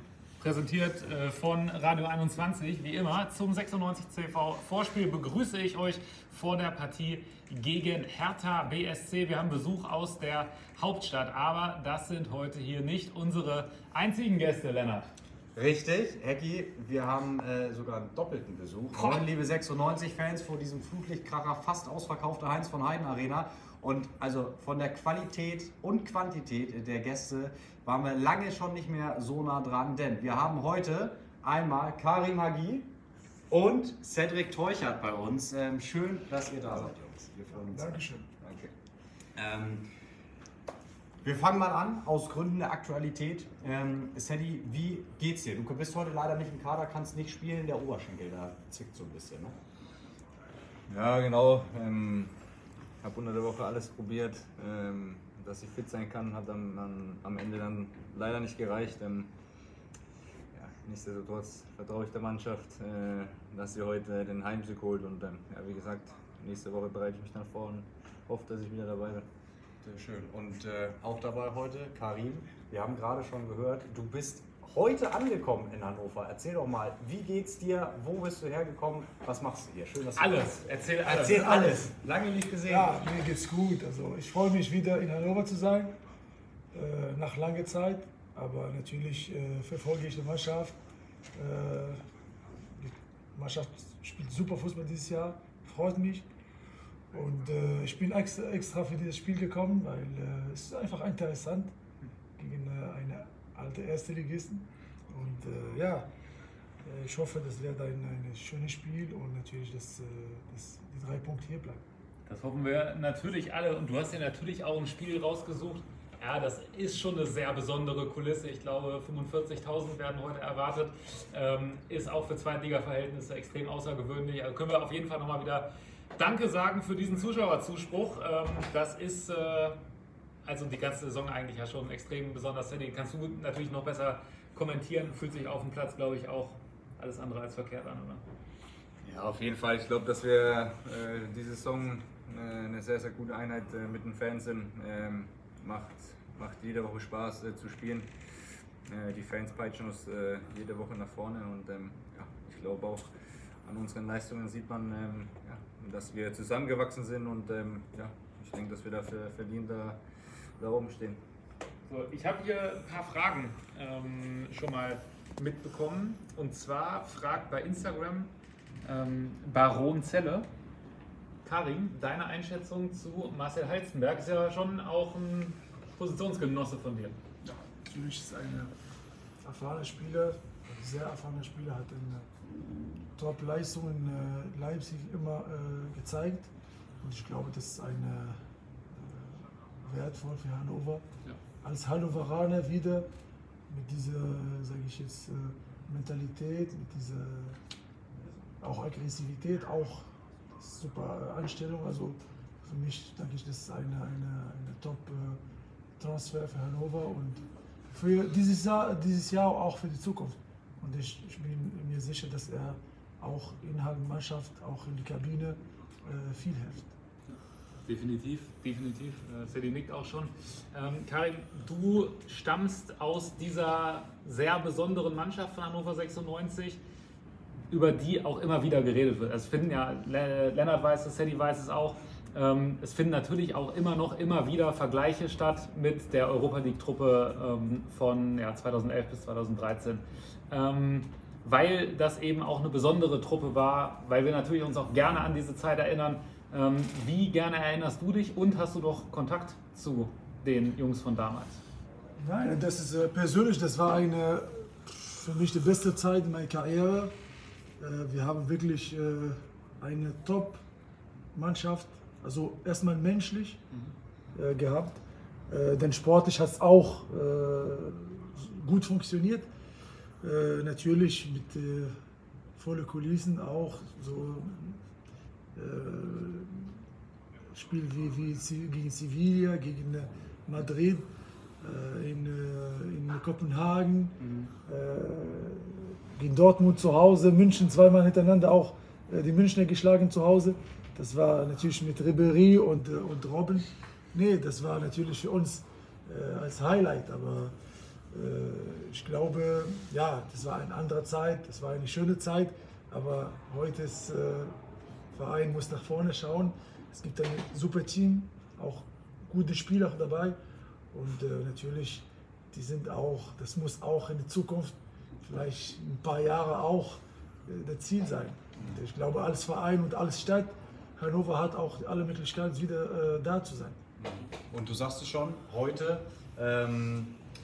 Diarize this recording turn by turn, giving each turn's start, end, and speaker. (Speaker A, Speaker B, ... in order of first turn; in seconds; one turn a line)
Speaker A: 0.4-15.1
Speaker B: 15.6-32.9
Speaker B: 33.5-38.0
Speaker C: 37.5-38.3
Speaker D: 38.4-38.7
Speaker B: 39.4-39.9
Speaker B: 41.2-49.6
Speaker D: 50.9-52.3
Speaker D: 53.0-59.3
Speaker D: 60.5-69.3
Speaker B: 69.8-80.4
Speaker A: 80.2-81.6
Speaker B: 81.0-83.0
Speaker C: 81.2-81.9
Speaker C: 82.7-86.0
Speaker C: 86.7-90.8
Speaker C: 91.4-92.0
Speaker C: 92.8-96.3
Speaker C: 97.1-101.7
Speaker C: 102.4-106.1
Speaker C: 106.8-111.8
Speaker A: 112.3-129.8
Speaker A: 130.4-138.2
Speaker D: 139.0-148.1
Speaker D: 148.9-153.1
Speaker D: 153.6-160.0
Speaker D: 160.6-161.2
Speaker A: 161.9-170.5
Speaker A: 171.4-177.2
Speaker C: 177.4-178.7
Speaker C: 179.4-182.3
Speaker C: 183.2-186.5
Speaker C: 187.0-191.0
Speaker C: 191.6-193.1
Speaker C: 193.7-197.6
Speaker C: 198.6-205.4
Speaker C: 206.0-216.9
Speaker A: 217.3-226.8
Speaker A: 227.7-251.6
Speaker C: 252.2-257.1
Speaker C: 257.8-260.6
Speaker C: 261.3-263.6
Speaker C: 264.3-269.5
Speaker C: 270.2-271.9
Speaker C: 272.6-274.8
Speaker C: 275.6-276.8
Speaker C: 277.5-281.1
Speaker C: 281.6-297.5
Speaker B: 284.2-284.5
Speaker C: 298.1-304.6
Speaker C: 305.1-310.4
Speaker C: 310.9-323.8
Speaker B: 324.0-327.2